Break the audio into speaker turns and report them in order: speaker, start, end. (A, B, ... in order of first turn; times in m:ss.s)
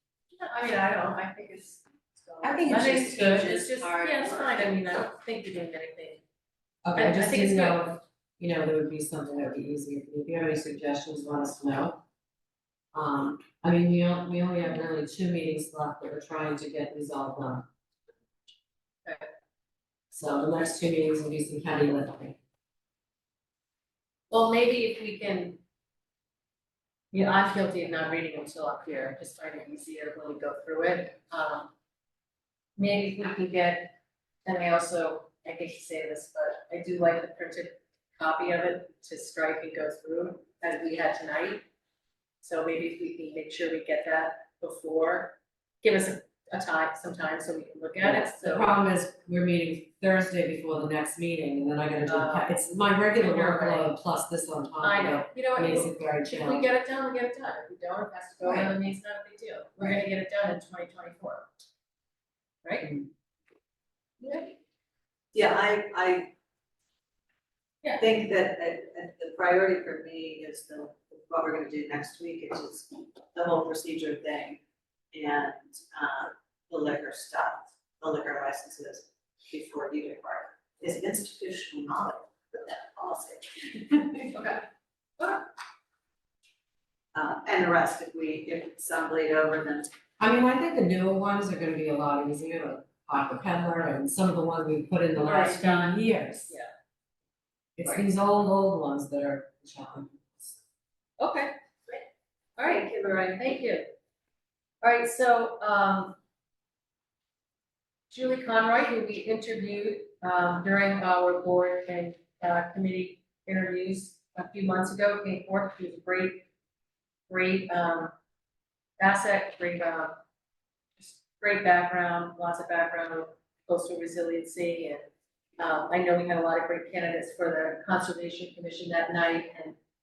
0:00.3-0:06.2 A
0:02.4-0:04.8 B
0:06.8-0:12.0 B
0:07.0-0:07.8 A
0:12.9-0:17.6 B
0:20.1-0:22.4 B
0:24.3-0:25.6 A
0:27.1-0:31.7 A
0:32.8-0:33.9 A
0:34.4-0:41.6 A
0:42.4-0:48.7 A
0:48.0-0:56.7 B
0:52.0-0:52.6 A
0:53.1-0:53.9 A
0:54.8-1:01.5 A
0:58.4-0:58.7 B
1:02.6-1:02.9 A
1:04.2-1:04.5 A
1:05.3-1:06.3 C
1:08.0-1:14.6 C
1:15.1-1:24.5 C
1:27.1-1:29.9 C
1:30.2-1:36.6 B
1:35.2-1:36.7 A
1:37.8-1:40.6 B
1:41.2-1:41.5 C
1:42.6-1:43.9 A
1:42.7-1:43.4 C
1:44.8-1:46.2 A
1:48.1-1:56.4 A
1:57.3-1:58.1 A
1:59.0-2:00.2 A
2:01.0-2:05.0 A
2:05.6-2:09.8 A